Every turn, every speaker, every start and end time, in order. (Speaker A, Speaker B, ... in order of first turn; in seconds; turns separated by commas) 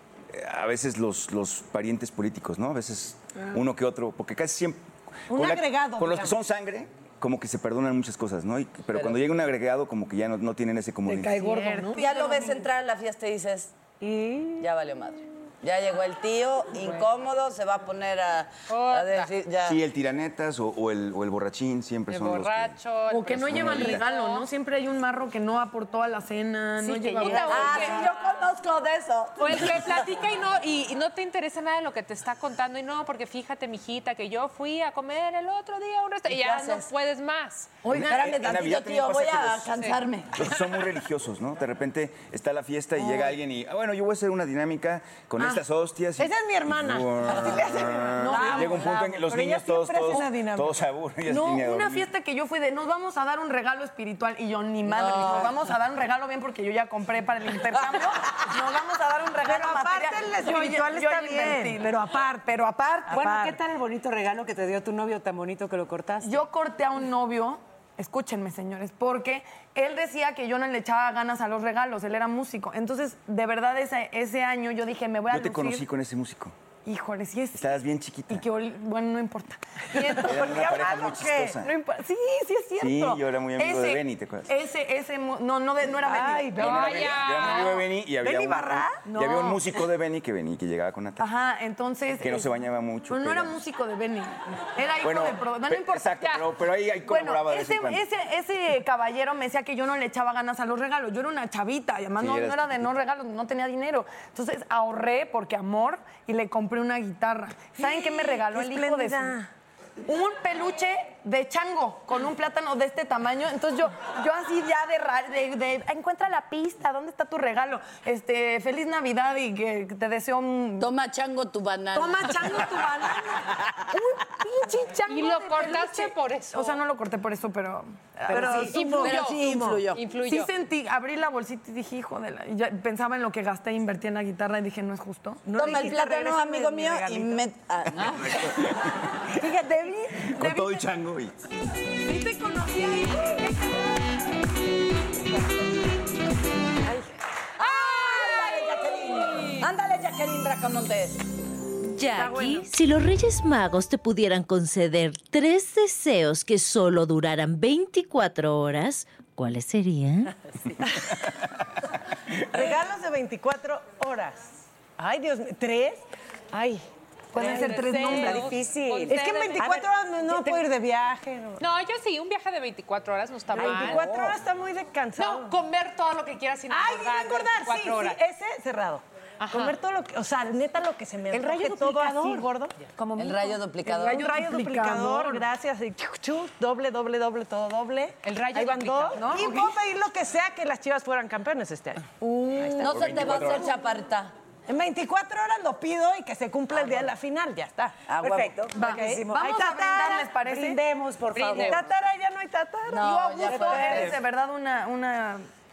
Speaker A: 0.3-11.4, Speaker B: 5.3-6.3, Speaker C: 8.9-9.2, Speaker D: 11.1-12.0, Speaker E: 11.4-11.8, Speaker C: 11.9-13.7, Speaker B: 14.0-14.5, Speaker C: 14.6-19.8, Speaker E: 18.7-19.3, Speaker A: 19.6-24.0, Speaker E: 22.1-24.4, Speaker D: 23.1-28.1, Speaker F: 26.8-27.6, Speaker E: 27.2-28.2, Speaker C: 27.2-30.1, Speaker E: 29.4-37.7, Speaker C: 36.3-36.9, Speaker C: 37.9-40.4, Speaker A: 37.9-39.7, Speaker D: 37.9-38.3, Speaker A: 40.3-52.1, Speaker B: 46.2-50.8, Speaker D: 48.2-49.0, Speaker D: 51.2-61.9, Speaker C: 54.8-55.6, Speaker B: 59.4-62.5, Speaker F: 63.1-66.4, Speaker B: 63.1-63.5, Speaker D: 66.2-75.8, Speaker A: 75.3-76.5, Speaker D: 76.8-77.8, Speaker A: 77.5-78.5, Speaker D: 78.3-80.9, Speaker A: 80.1-81.7, Speaker F: 81.1-81.4, Speaker D: 81.6-87.4, Speaker A: 82.8-84.5, Speaker F: 86.1-86.5, Speaker B: 86.1-87.0, Speaker A: 86.5-91.2, Speaker E: 86.6-87.8, Speaker F: 88.2-89.0, Speaker D: 89.0-89.7, Speaker D: 91.2-96.2, Speaker A: 92.2-93.6, Speaker A: 95.0-98.0, Speaker E: 96.2-96.5, Speaker D: 97.0-109.4, Speaker A: 102.2-102.9, Speaker B: 107.8-109.5, Speaker D: 110.1-120.9, Speaker C: 120.8-122.9, Speaker D: 121.9-129.1, Speaker E: 125.1-126.8, Speaker B: 128.3-129.1, Speaker F: 128.3-128.6, Speaker E: 128.6-130.5, Speaker C: 128.7-130.0, Speaker D: 130.2-135.4, Speaker B: 135.4-137.4, Speaker C: 135.6-138.6, Speaker A: 138.0-138.7, Speaker D: 139.8-140.8, Speaker A: 140.1-141.3, Speaker C: 147.6-151.2, Speaker G: 151.8-160.3, Speaker B: 162.5-171.6, Speaker D: 167.3-168.6, Speaker E: 167.3-169.8, Speaker F: 168.1-170.7, Speaker E: 171.6-174.1, Speaker B: 173.5-175.6, Speaker F: 173.5-174.4, Speaker E: 175.2-178.2, Speaker B: 176.7-182.8, Speaker E: 179.4-179.8, Speaker F: 181.3-182.5, Speaker C: 183.2-184.4, Speaker B: 183.8-193.4, Speaker D: 184.0-185.4, Speaker E: 188.2-189.2, Speaker D: 189.2-189.7, Speaker D: 192.5-193.2, Speaker C: 192.8-194.3, Speaker A: 192.8-193.6, Speaker B: 194.7-200.2, Speaker C: 198.1-198.5, Speaker F: 198.2-202.0, Speaker D: 198.7-200.8, Speaker E: 201.3-201.8, Speaker B: 201.6-204.2, Speaker C: 202.9-204.1, Speaker D: 203.1-205.4, Speaker F: 203.5-204.1